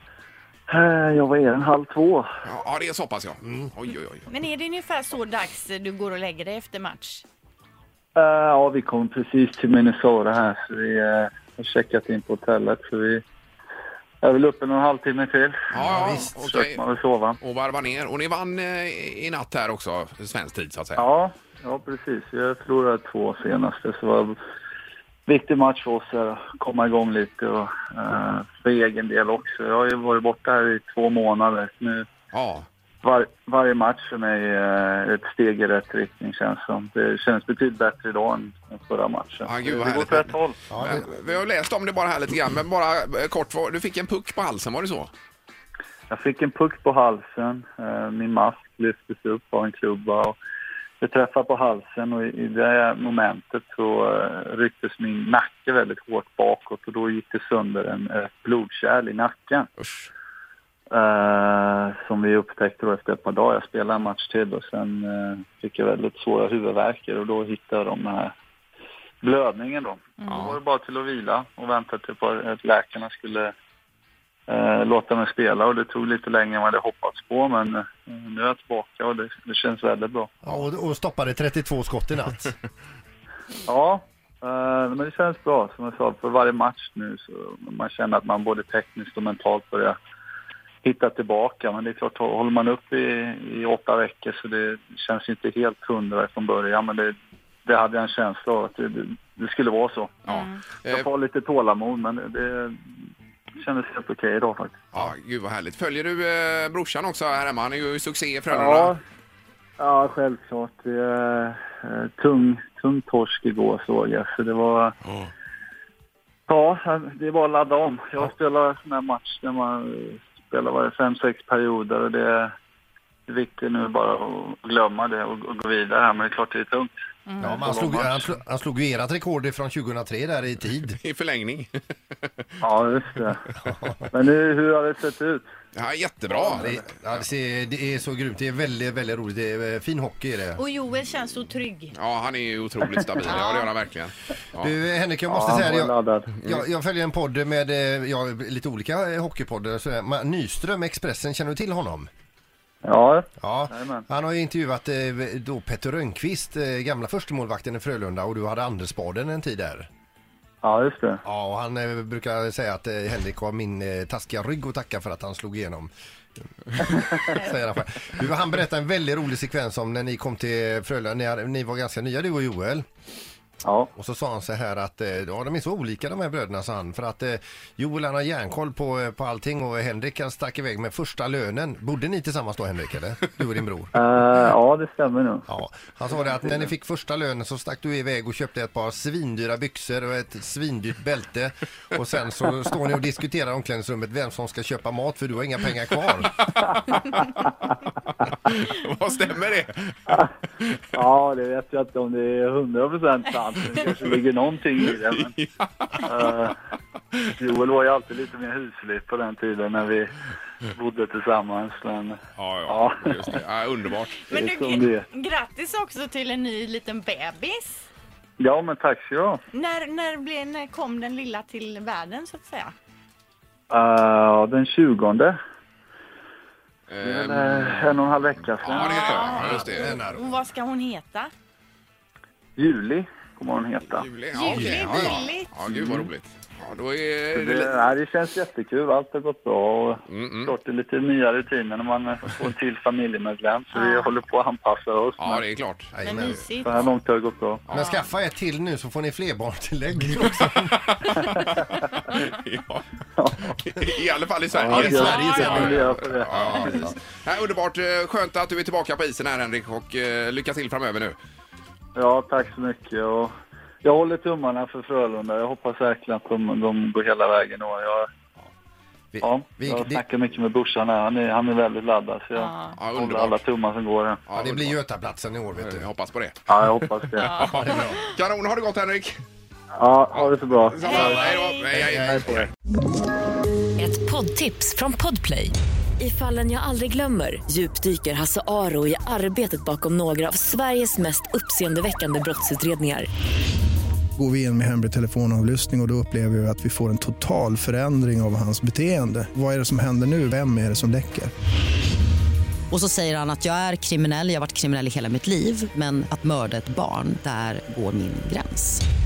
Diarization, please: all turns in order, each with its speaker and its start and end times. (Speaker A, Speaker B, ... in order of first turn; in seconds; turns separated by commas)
Speaker A: 0.7-2.3, Speaker B: 2.4-4.3, Speaker C: 4.3-7.2, Speaker A: 8.2-13.2, Speaker A: 14.2-17.4, Speaker B: 15.7-16.8, Speaker D: 15.8-16.3, Speaker B: 17.4-21.0, Speaker A: 21.0-24.4, Speaker A: 25.3-32.1, Speaker B: 32.3-32.7, Speaker A: 33.0-40.6, Speaker B: 39.4-45.1, Speaker D: 40.7-41.0, Speaker A: 46.1-50.4, Speaker A: 51.0-59.7, Speaker B: 59.8-60.1, Speaker A: 60.9-68.3, Speaker A: 69.2-73.5, Speaker C: 70.2-70.5, Speaker A: 74.5-80.3, Speaker D: 80.4-82.5, Speaker A: 83.7-90.0, Speaker A: 90.8-97.1, Speaker A: 97.7-100.2, Speaker B: 100.3-101.1, Speaker C: 100.3-100.6, Speaker A: 100.8-102.9, Speaker A: 103.6-104.8, Speaker B: 104.9-108.9, Speaker A: 108.5-109.0, Speaker A: 109.8-115.0, Speaker A: 116.5-122.5, Speaker A: 123.3-128.3, Speaker C: 127.3-127.7, Speaker D: 127.4-131.0, Speaker B: 131.0-132.5, Speaker A: 132.6-133.5, Speaker D: 133.6-134.0, Speaker A: 134.1-135.4, Speaker B: 135.8-136.7, Speaker A: 136.3-136.8, Speaker D: 136.6-140.6, Speaker C: 140.6-141.9, Speaker B: 141.9-144.7, Speaker C: 143.3-143.7, Speaker D: 144.6-152.1, Speaker A: 145.3-146.3, Speaker A: 152.8-154.1, Speaker D: 153.4-159.9, Speaker A: 160.6-161.2, Speaker D: 161.2-165.9, Speaker D: 166.7-172.8, Speaker A: 173.6-173.9, Speaker D: 173.9-183.9, Speaker A: 183.9-185.5, Speaker D: 185.5-196.3, Speaker A: 186.1-186.7, Speaker B: 196.6-200.8, Speaker A: 200.9-205.3, Speaker B: 204.8-206.1, Speaker A: 206.0-206.6, Speaker A: 207.3-210.1, Speaker A: 210.7-213.4, Speaker B: 212.4-214.3, Speaker C: 214.3-217.9, Speaker A: 214.3-215.1, Speaker A: 218.4-219.4, Speaker C: 219.5-222.7, Speaker A: 223.7-225.4, Speaker B: 226.9-230.0, Speaker A: 227.0-229.2, Speaker C: 228.6-231.3, Speaker D: 229.1-230.4, Speaker A: 232.6-234.1, Speaker B: 233.9-237.9, Speaker C: 234.3-235.5, Speaker D: 234.5-235.2, Speaker A: 235.7-236.1, Speaker A: 237.3-245.4, Speaker B: 240.1-240.5, Speaker C: 243.7-244.1, Speaker B: 245.2-246.0, Speaker D: 245.9-246.9, Speaker C: 246.0-246.9, Speaker A: 246.6-247.6, Speaker D: 247.7-251.1, Speaker B: 250.9-252.8, Speaker A: 253.2-253.6, Speaker B: 253.6-261.2, Speaker A: 254.5-256.3, Speaker D: 254.6-257.0, Speaker C: 254.9-255.8, Speaker A: 261.9-268.1, Speaker D: 269.1-270.0, Speaker A: 269.2-274.2, Speaker C: 272.4-272.8, Speaker B: 272.8-273.4, Speaker B: 274.3-274.8, Speaker D: 274.3-275.9, Speaker B: 275.6-276.5, Speaker A: 276.5-277.4, Speaker C: 277.2-278.0, Speaker B: 277.3-279.2, Speaker D: 277.6-278.0, Speaker A: 279.7-281.2, Speaker B: 280.1-282.4, Speaker C: 280.8-281.6, Speaker D: 280.9-282.3, Speaker A: 281.9-282.5, Speaker E: 283.8-293.1, Speaker F: 294.2-301.3, Speaker G: 302.7-308.8